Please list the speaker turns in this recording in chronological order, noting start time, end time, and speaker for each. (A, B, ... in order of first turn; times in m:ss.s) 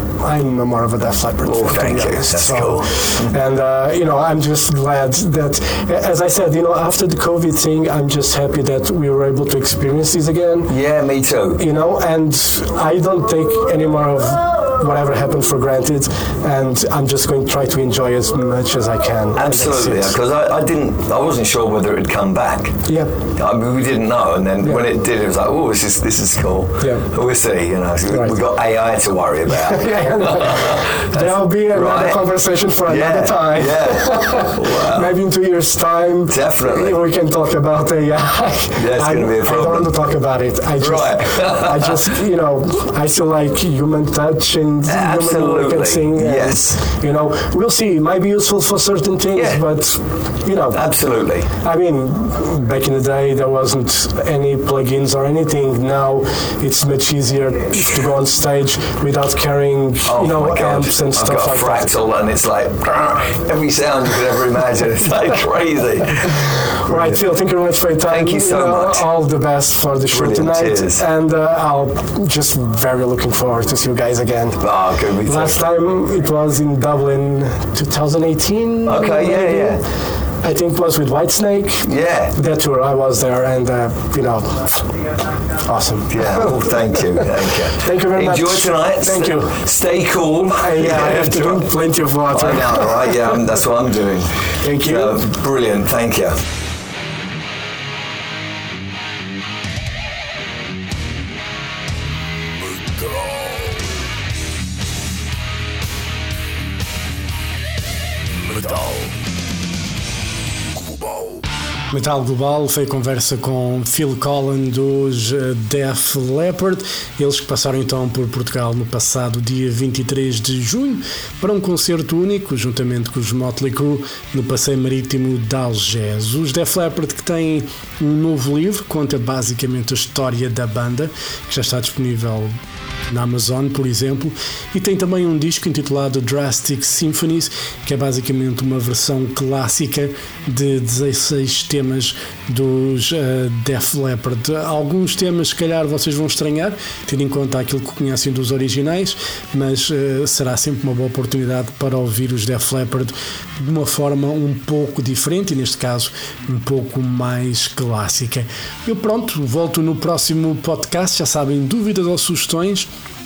0:00.2-0:10.7 A
0:01.4-0:03.3 B
0:10.7-0:11.6 B
0:11.6-0:20.2 A
0:19.4-0:22.7 B
0:22.9-0:23.1 A
0:23.4-0:32.2 B
0:26.8-0:27.0 A
0:28.1-0:28.4 A
0:29.5-0:50.8 A
0:32.8-0:35.1 B
0:36.3-0:37.0 B
0:38.7-0:39.9 B
0:40.8-0:42.0 B
0:44.8-0:46.8 B
0:49.4-0:49.6 B
0:50.7-0:51.5 B
0:51.5-1:01.9 A
1:00.0-1:07.2 B
1:06.5-1:14.6 A
1:08.1-1:09.0 B
1:10.1-1:11.0 B
1:14.6-1:15.6 B
1:15.2-1:19.9 A
1:18.8-1:19.8 B
1:20.4-1:25.0 A
1:21.8-1:22.3 B
1:25.6-1:29.6 A
1:26.1-1:31.7 B
1:30.5-1:33.4 A
1:32.3-1:36.4 B
1:34.6-1:35.2 A
1:48.5-1:49.1 C
1:51.9-2:12.5 C
2:13.1-2:42.9 C